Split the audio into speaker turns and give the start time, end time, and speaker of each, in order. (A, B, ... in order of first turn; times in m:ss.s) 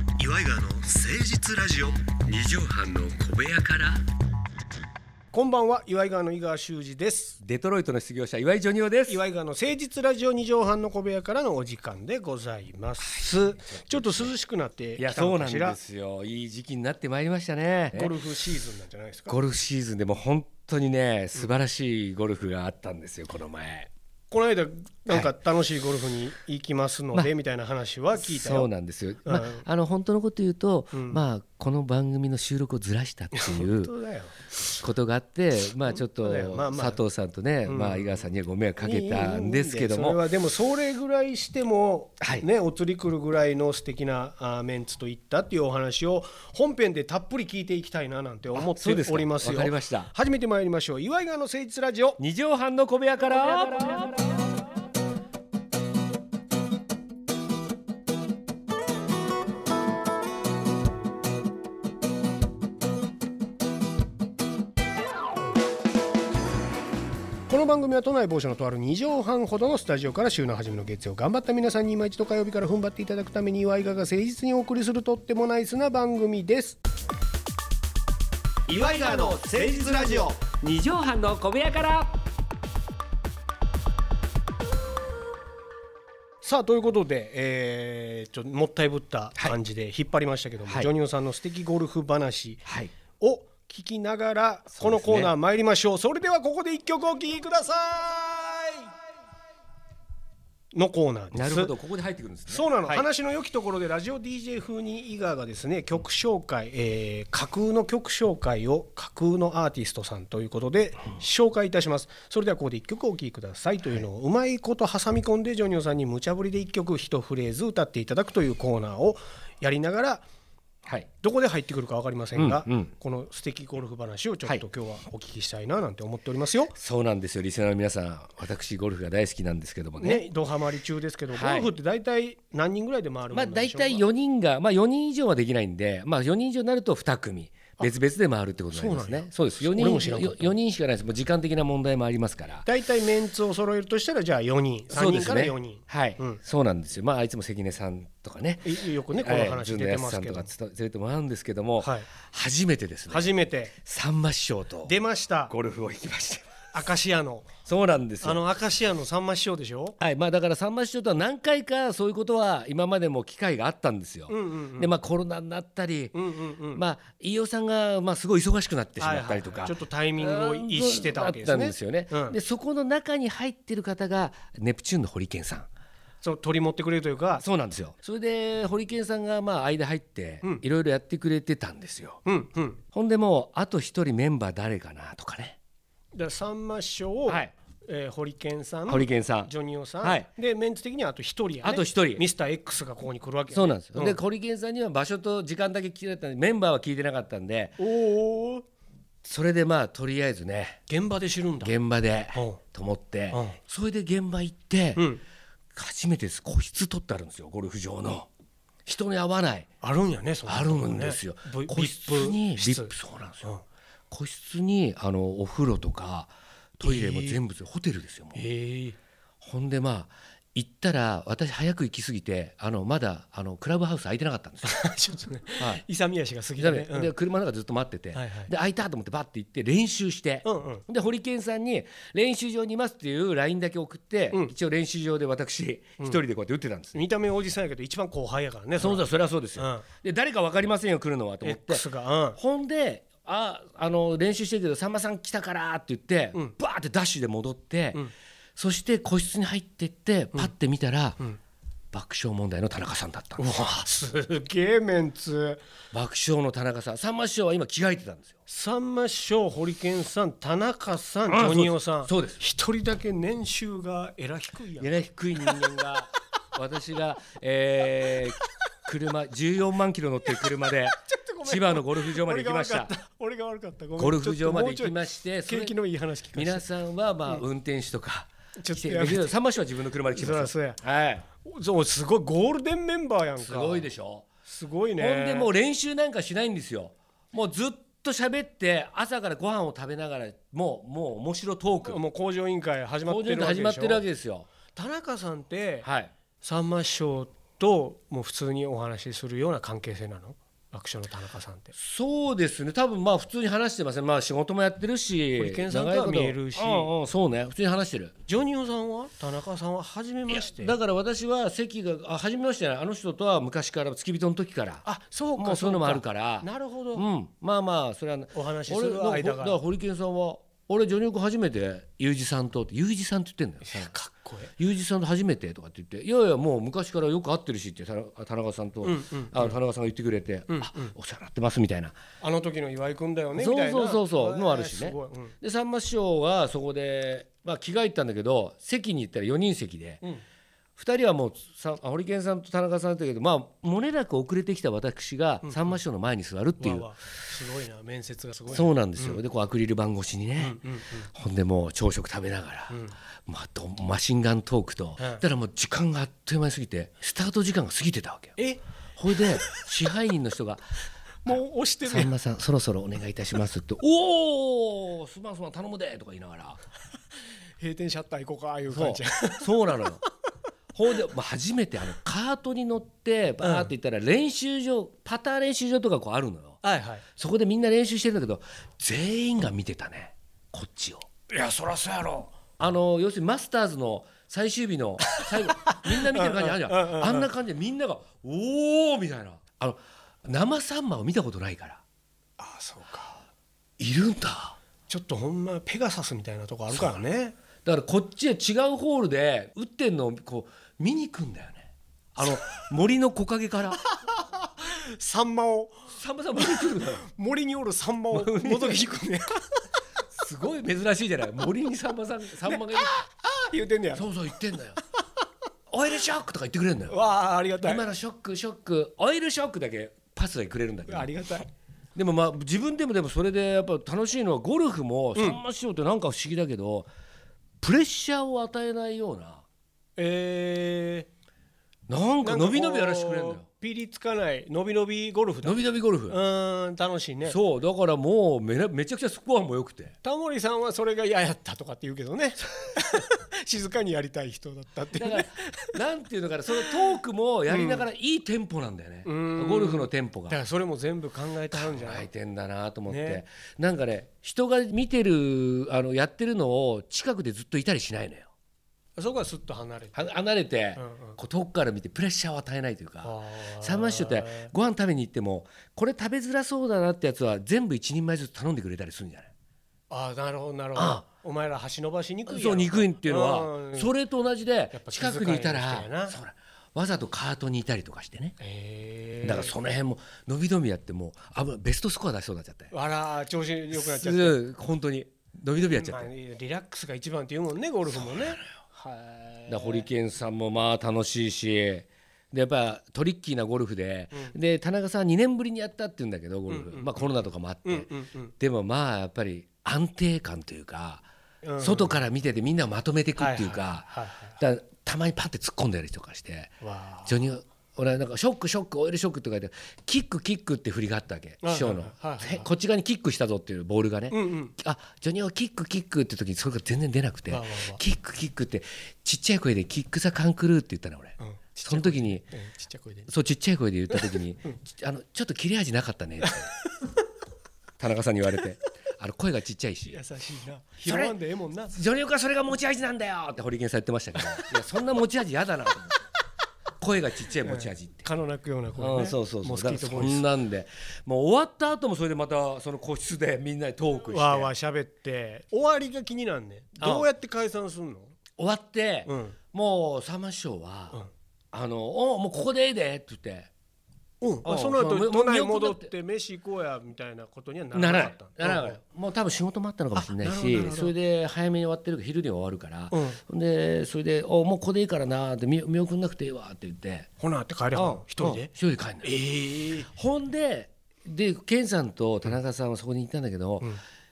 0:00.2-0:04.0 A
0:05.3-0:07.4 B
0:07.4-0:09.2 A
0:09.1-0:15.8 B
0:13.0-0:14.3 A
0:15.0-0:18.1 A
0:17.9-0:19.4 B
0:19.3-0:23.9 A
0:24.3-0:28.7 B
0:28.2-0:33.9 A
0:29.2-0:29.6 B
0:30.9-0:31.2 B
0:33.3-0:34.4 B
0:34.8-0:40.2 A
0:36.2-0:37.0 B
0:37.7-0:38.2 B
0:38.8-0:52.2 B
0:42.2-0:42.5 A
0:48.5-0:50.1 A
0:52.2-0:54.3 A
1:07.5-1:16.8 B
1:18.7-1:22.2 A
1:19.0-1:20.0 B
1:26.4-1:32.6 B
1:32.7-1:32.9 A
1:33.2-1:38.9 B
1:34.7-1:35.3 A
1:40.7-1:41.7 B
1:41.3-1:43.0 A
1:42.5-2:00.2 B
2:01.2-2:06.8 B
2:02.4-2:02.9 A
2:06.8-2:10.2 A
2:10.0-2:14.0 B
2:11.3-2:11.7 A
2:13.3-2:22.7 A
2:18.7-2:20.6 B
2:22.6-2:26.4 B
2:24.9-2:33.3 A
2:28.6-2:30.5 B
2:31.8-2:32.1 B
2:33.1-2:33.8 B
2:33.8-2:34.9 A
2:34.8-2:35.6 B
2:35.5-2:36.7 A
2:36.7-2:37.5 B
2:37.7-2:38.4 A
2:38.2-2:40.0 B
2:40.0-2:46.2 A
2:44.3-2:44.9 B
2:46.1-2:46.8 B
2:46.7-2:55.7 A
2:49.0-2:52.4 B
2:56.2-2:57.4 B
2:57.4-3:02.2 A
3:02.2-3:02.8 B
3:02.9-3:05.6 A
3:06.2-3:14.2 B
3:07.3-3:07.5 A
3:08.9-3:10.3 A
3:11.6-3:12.2 A
3:13.5-3:17.8 A
3:17.8-3:18.6 B
3:19.2-3:20.8 A
3:20.9-3:21.7 B
3:21.6-3:25.1 A
3:22.3-3:22.6 B
3:23.3-3:23.6 B
3:25.0-3:25.2 B
3:25.7-3:28.3 A
3:28.8-3:29.7 A
3:29.8-3:33.6 B
3:30.5-3:33.5 A
3:34.1-3:38.4 A
3:36.8-3:37.4 B
3:38.3-3:39.0 B
3:39.4-3:44.8 A
3:44.6-3:47.1 B
3:46.6-3:57.0 A
3:48.1-3:48.5 B
3:50.4-3:50.8 B
3:56.9-3:59.8 B
3:58.8-4:01.8 A
4:01.4-4:02.4 B
4:02.3-4:11.2 A
4:11.9-4:13.4 A
4:13.4-4:15.6 B
4:15.9-4:18.3 A
4:18.5-4:25.6 B
4:21.3-4:22.4 A
4:24.8-4:32.9 A
4:31.0-4:36.7 B
4:34.0-4:35.8 A
4:36.3-4:41.2 A
4:38.6-4:39.4 B
4:40.1-4:40.8 B
4:41.4-4:43.9 B
4:43.4-4:44.3 A
4:44.4-4:45.5 B
4:45.0-4:52.0 A
4:51.8-4:54.0 B
4:53.1-4:54.5 A
4:54.8-4:55.9 B
4:55.8-4:56.1 A
4:56.4-5:01.7 B
5:01.7-5:08.1 A
5:05.4-5:06.9 B
5:08.3-5:10.8 B
5:10.3-5:14.8 A
5:14.8-5:17.1 B
5:15.4-5:23.9 A
5:18.3-5:19.6 B
5:23.6-5:24.5 B
5:24.6-5:32.0 A
5:28.8-5:29.6 B
5:30.5-5:30.9 B
5:32.2-5:35.4 B
5:33.4-5:40.0 A
5:40.8-5:46.9 A
5:45.4-5:45.8 B
5:46.6-5:49.2 B
5:48.5-5:50.6 A
5:50.4-5:51.1 B
5:51.1-5:58.4 A
5:52.7-5:53.0 B
5:59.0-6:00.6 A
6:01.2-6:02.1 B
6:01.3-6:06.6 A
6:07.6-6:09.7 B
6:08.7-6:10.0 A
6:10.7-6:16.6 A
6:13.4-6:13.7 B
6:16.6-6:17.0 B
6:17.2-6:21.1 A
6:21.3-6:22.3 B
6:22.6-6:31.8 A
6:25.2-6:27.3 B
6:32.4-6:33.2 B
6:33.8-6:34.6 A
6:34.9-6:37.4 B
6:36.7-6:37.0 A
6:37.6-6:43.8 A
6:43.9-6:45.8 B
6:45.9-6:47.0 A
6:46.4-6:49.4 B
6:48.1-6:48.9 A
6:50.1-6:53.0 A
6:52.4-6:54.1 B
6:53.9-6:54.8 A
6:55.7-6:57.0 A
6:56.9-6:57.8 B
6:57.6-7:01.1 A
7:00.9-7:01.4 B
7:01.9-7:06.9 A
7:05.1-7:05.4 B
7:07.6-7:09.4 A
7:10.0-7:11.1 B
7:11.9-7:13.4 A
7:12.2-7:17.4 B
7:15.4-7:16.2 A
7:17.2-7:19.9 A
7:20.0-7:25.8 B
7:24.9-7:30.4 A
7:27.5-7:27.9 B
7:29.0-7:32.1 B
7:31.5-7:38.3 A
7:32.9-7:33.2 B
7:39.0-7:40.0 B
7:39.9-7:49.3 A
7:40.8-7:41.2 B
7:43.0-7:44.5 B
7:49.9-7:53.9 B
7:50.8-7:51.0 A
7:52.3-7:58.4 A
7:54.7-7:56.2 B
7:58.4-7:59.5 B
7:59.2-8:02.7 A
8:02.7-8:04.4 B
8:03.7-8:06.1 A
8:05.6-8:09.9 B
8:09.5-8:17.9 A
8:16.5-8:17.1 B
8:17.6-8:18.3 B
8:18.4-8:21.0 A
8:21.4-8:22.0 B
8:21.6-8:42.2 A
8:23.2-8:24.4 B
8:26.6-8:27.1 B
8:31.4-8:32.5 B
8:34.1-8:34.5 B
8:37.3-8:37.8 B
8:41.2-8:43.1 B
8:43.1-8:46.5 A
8:43.9-8:44.6 B
8:46.2-8:46.9 B
8:47.8-8:50.0 A
8:49.8-8:51.8 B
8:50.8-8:51.2 A
8:51.7-8:56.0 A
8:56.8-8:58.0 A
8:57.4-9:00.2 B
8:58.8-9:04.5 A
9:04.1-9:08.1 B
9:06.8-9:07.1 A
9:08.4-9:11.0 A
9:09.0-9:09.4 B
9:11.5-9:13.5 A
9:14.2-9:18.8 B
9:14.4-9:15.9 A
9:17.7-9:27.1 A
9:19.9-9:20.9 B
9:22.9-9:23.2 B
9:27.2-9:28.5 B
9:27.7-9:29.1 A
9:29.0-9:29.9 B
9:29.9-9:33.7 A